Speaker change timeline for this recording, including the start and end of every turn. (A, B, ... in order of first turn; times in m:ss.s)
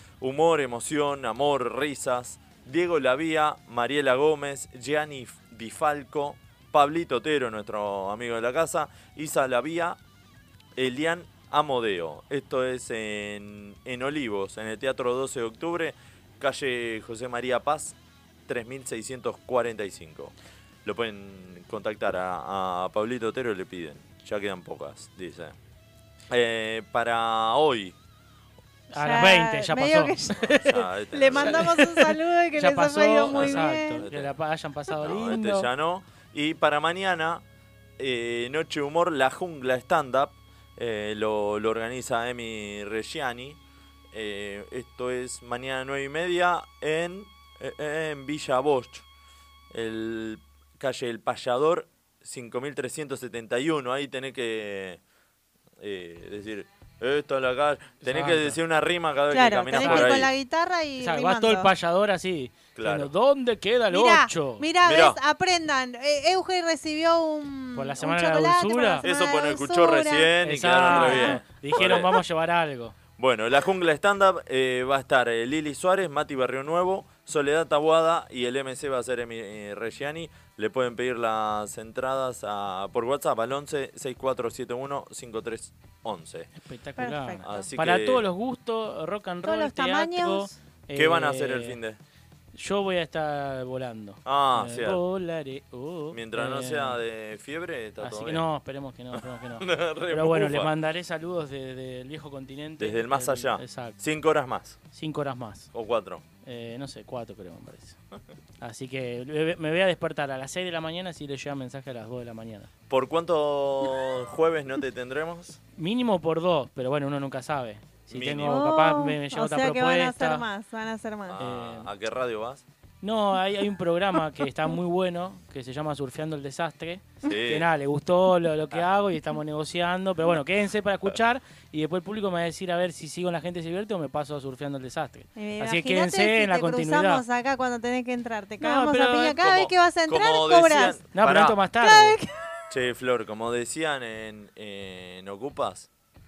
0:00.2-0:10.0 A
0:10.8-0:18.0 A
0:18.5-0:20.3 A
0:20.8-0:25.6 A
0:26.3-0:28.0 A
0:28.9-0:35.7 B
0:29.0-0:30.5 C
0:30.4-0:31.6 A
0:31.1-0:34.0 C
0:33.3-0:34.3 A
0:35.0-0:37.4 A
0:38.0-0:43.6 A
0:44.1-0:49.1 A
0:49.7-0:55.0 A
0:55.8-1:00.3 A
0:58.0-0:58.6 B
0:59.3-1:01.7 C
0:59.7-1:00.3 B
1:01.0-1:04.7 B
1:02.8-1:03.1 A
1:03.9-1:10.3 C
1:04.8-1:05.2 A
1:07.8-1:09.0 B
1:09.0-1:12.1 A
1:10.4-1:13.0 B
1:10.9-1:11.4 C
1:13.2-1:26.5 A
1:26.6-1:31.8 B
1:27.0-1:27.6 C
1:27.4-1:28.3 A
1:29.4-1:30.5 C
1:31.0-1:32.0 A
1:32.5-1:37.0 B
1:34.2-1:35.0 A
1:36.1-1:38.4 A
1:38.0-1:44.0 B
1:39.2-1:40.7 A
1:42.8-1:44.8 A
1:44.9-1:45.7 B
1:45.7-1:46.2 A
1:46.4-1:48.0 B
1:48.6-1:52.7 B
1:52.9-1:55.6 A
1:55.8-2:00.5 B
1:58.1-1:58.6 A
1:58.4-2:01.4 C
2:01.3-2:02.6 A
2:01.4-2:01.9 B
2:03.0-2:17.2 B
2:07.3-2:07.7 A
2:15.4-2:21.0 C
2:18.6-2:19.4 B
2:19.4-2:21.6 A
2:21.1-2:22.2 B
2:21.8-2:22.5 C
2:22.7-2:25.9 A